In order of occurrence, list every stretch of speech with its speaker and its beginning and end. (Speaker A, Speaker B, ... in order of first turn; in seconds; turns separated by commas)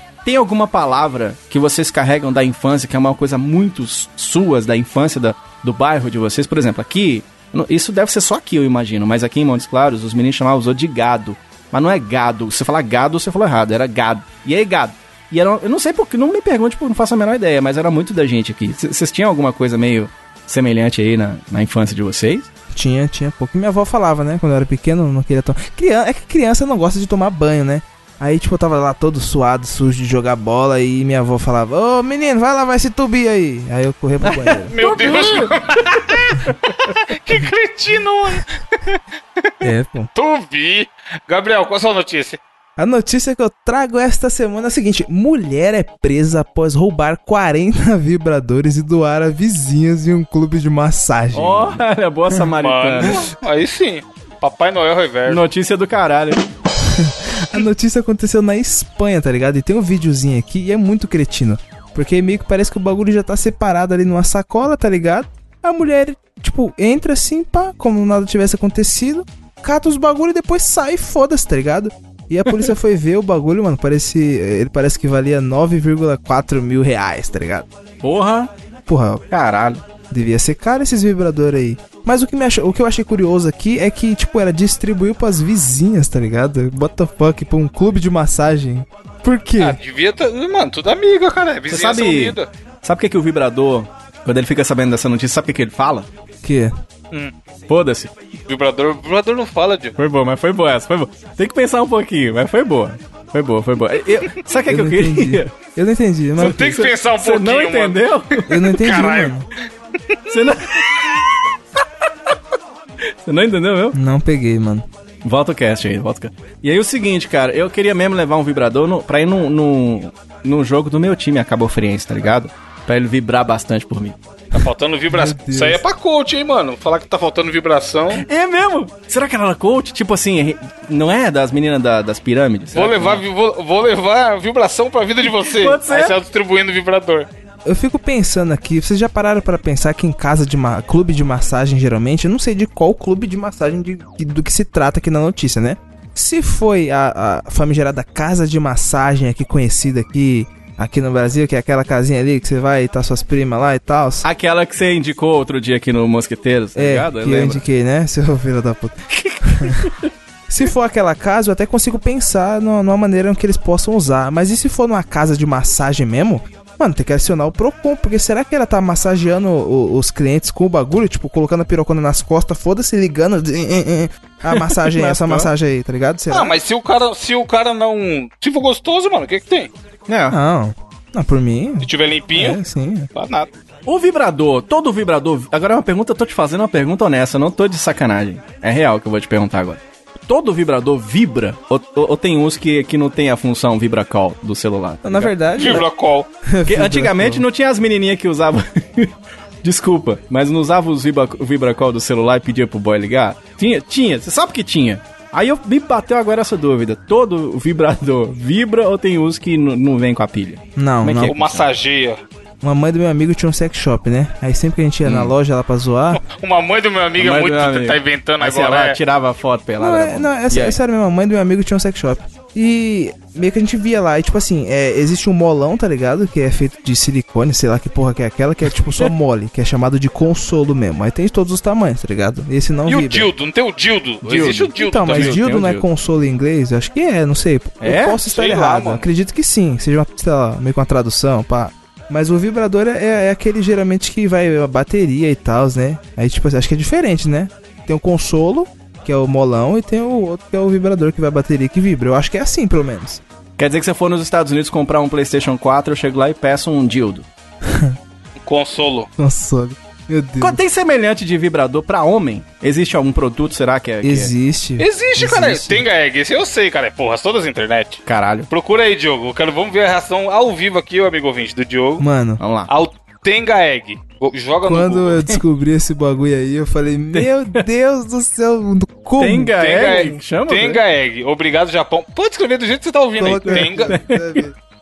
Speaker A: 0.2-22.5, Speaker B: 22.7-34.8, Speaker A: 34.2-36.7, Speaker C: 34.7-39.6, Speaker B: 39.6-40.1, Speaker C: 40.1-42.4, Speaker B: 42.8-52.5, Speaker A: 51.3-53.2, Speaker C: 52.6-55.4, Speaker A: 55.3-56.5, Speaker B: 56.8-77.7, Speaker A: 78.0-78.5, Speaker B: 78.9-79.2, Speaker A: 79.3-79.8, Speaker B: 80.1-89.8, Speaker C: 89.6-92.5, Speaker A: 91.7-96.1, Speaker B: 96.4-96.7, Speaker A: 97.7-98.1, Speaker C: 98.5-100.0, Speaker A: 100.0-105.5, Speaker B: 104.7-106.8, Speaker C: 106.4-108.0, Speaker A: 106.4-108.7, Speaker B: 108.5-109.5, Speaker C: 108.7-109.4, Speaker A: 110.3-111.0, Speaker A: 113.2-114.0, Speaker B: 113.9-114.8, Speaker A: 115.2-124.2, Speaker C: 124.5-128.2, Speaker B: 125.1-125.8, Speaker A: 128.1-133.2, Speaker C: 132.7-137.3, Speaker A: 135.3-136.2, Speaker B: 137.7-154.2, Speaker A: 154.2-157.6, Speaker B: 156.8-159.9, Speaker A: 159.1-160.1, Speaker B: 160.5-176.6, Speaker A: 174.5-175.5, Speaker C: 176.3-179.7, Speaker A: 180.1-180.4, Speaker B: 180.3-183.1, Speaker C: 181.8-182.6, Speaker C: 183.2-183.5, Speaker A: 183.9-195.8, Speaker B: 195.0-195.9, Speaker C: 195.6-196.3, Speaker B: 196.5-197.4, Speaker A: 196.7-211.7, Speaker B: 210.8-211.4, Speaker C: 211.2-212.2, Speaker B: 212.6-216.2, Speaker A: 215.1-215.3, Speaker C: 216.2-219.0, Speaker A: 217.2-220.8, Speaker B: 219.8-233.3, Speaker A: 228.8-229.1, Speaker C: 232.9-235.4, Speaker A: 234.2-235.9, Speaker B: 234.8-253.2, Speaker A: 237.8-238.2, Speaker C: 238.2-239.1, Speaker A: 253.6-257.3, Speaker B: 257.6-258.0, Speaker C: 258.4-259.1, Speaker B: 259.2-260.6, Speaker A: 260.4-264.3, Speaker B: 264.0-265.8, Speaker C: 264.8-272.0, Speaker A: 268.1-268.5, Speaker B: 272.0-272.4, Speaker A: 272.4-272.7, Speaker C: 272.7-275.2, Speaker B: 274.6-279.6, Speaker A: 277.1-277.6, Speaker A: 279.2-280.8, Speaker C: 279.6-284.0, Speaker B: 283.2-284.5, Speaker A: 283.5-284.5